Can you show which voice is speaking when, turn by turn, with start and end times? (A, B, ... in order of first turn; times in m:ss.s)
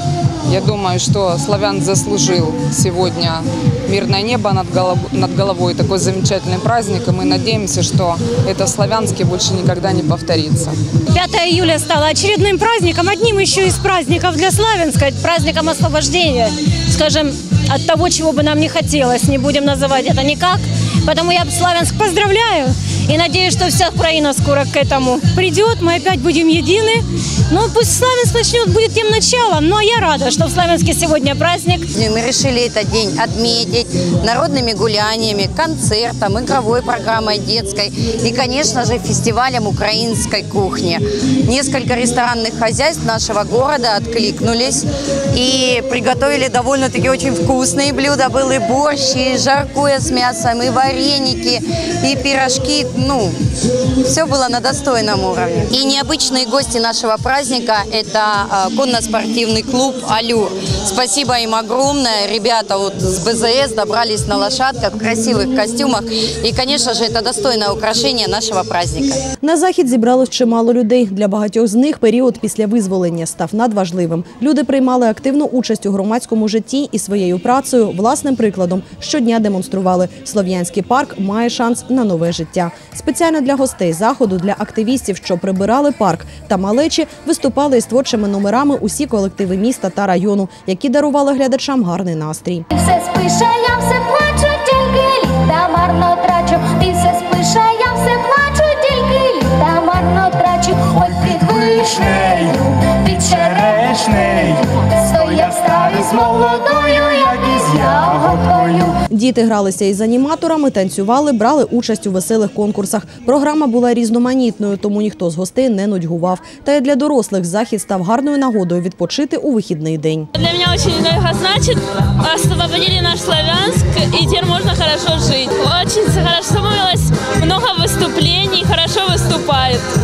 0:00.5-0:10.8 A
0:11.1-0:31.9 B
0:31.9-0:53.4 C
0:54.0-1:09.2 C
1:09.4-1:32.7 D
1:32.7-1:49.0 E
1:49.1-2:00.3 D
2:00.4-2:09.9 F